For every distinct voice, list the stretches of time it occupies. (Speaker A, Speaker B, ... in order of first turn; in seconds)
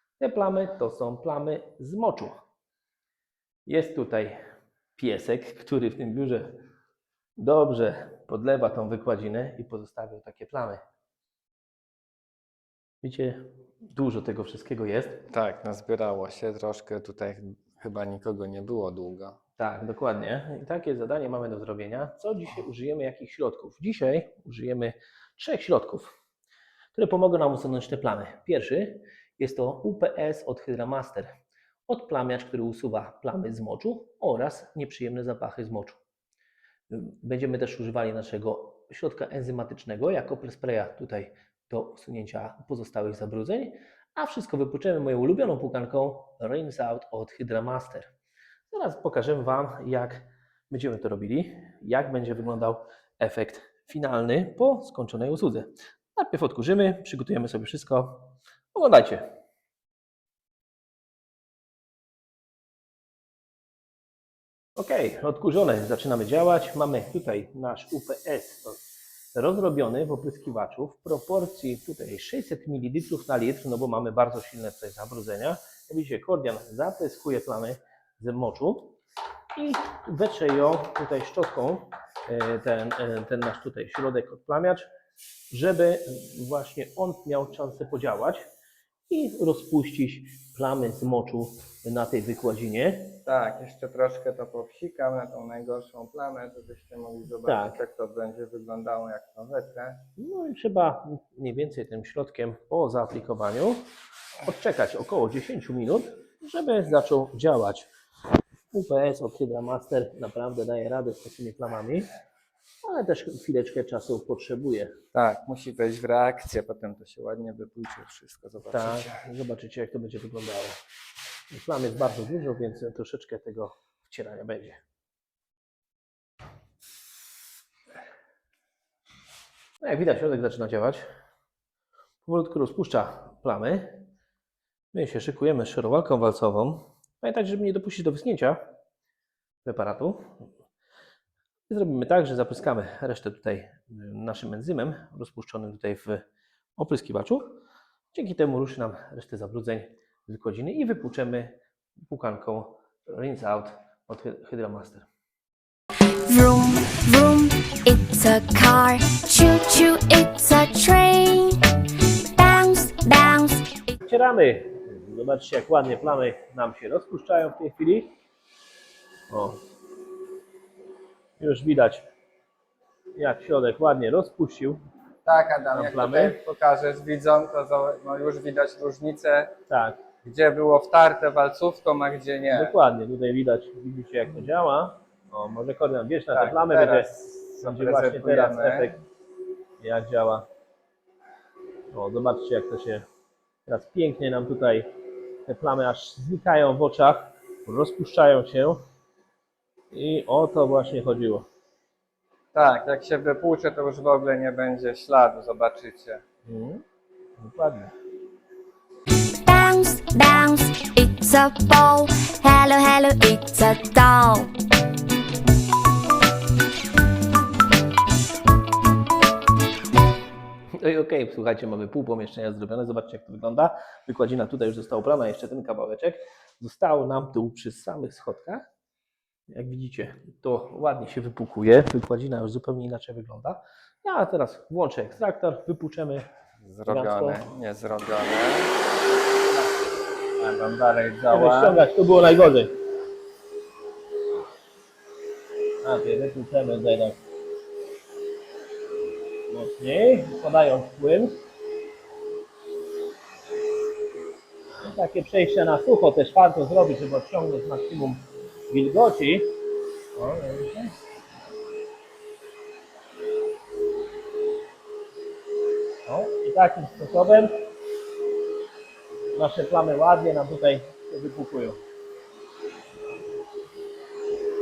Speaker A: 0.2-2.4, 3.7-4.4, 5.0-6.5, 7.4-10.8, 13.0-15.3, 19.6-26.1, 26.9-36.0, 36.9-48.1, 48.7-59.2, 64.8-79.0, 79.5-84.9, 85.5-88.4, 89.1-93.2, 97.4-97.8, 100.2-103.8, 104.4-107.9, 108.7-112.1, 112.8-115.0, 118.6-120.8, 121.5-124.8, 129.8-131.0, 132.2-134.0, 134.9-138.6, 139.7-140.5, 141.7-146.2, 146.8-147.5, 148.1-151.5, 152.1-155.1, 164.0-168.1, 169.3-169.6, 171.4-172.1, 173.2-174.8, 175.7-176.4, 179.7-180.0, 182.5-187.1, 187.6-189.0, 189.8-190.5, 191.9-193.1, 193.7-194.9, 195.5-198.8, 199.9-201.5, 206.5-206.8, 207.4-207.9, 220.7-228.7, 229.5-236.3, 236.9-237.5, 241.3-242.8, 245.8-247.2, 249.5-251.4, 254.8-259.5, 260.2-260.9, 266.1-267.5, 269.4-271.8
Speaker B: 15.3-19.4, 93.3-100.0, 115.1-119.1, 175.3-179.4, 180.2-182.6, 186.3-188.9, 202.5-206.2, 236.6-238.7, 240.4-241.4
Speaker C: 156.3-161.6, 162.4-163.7, 209.5-214.5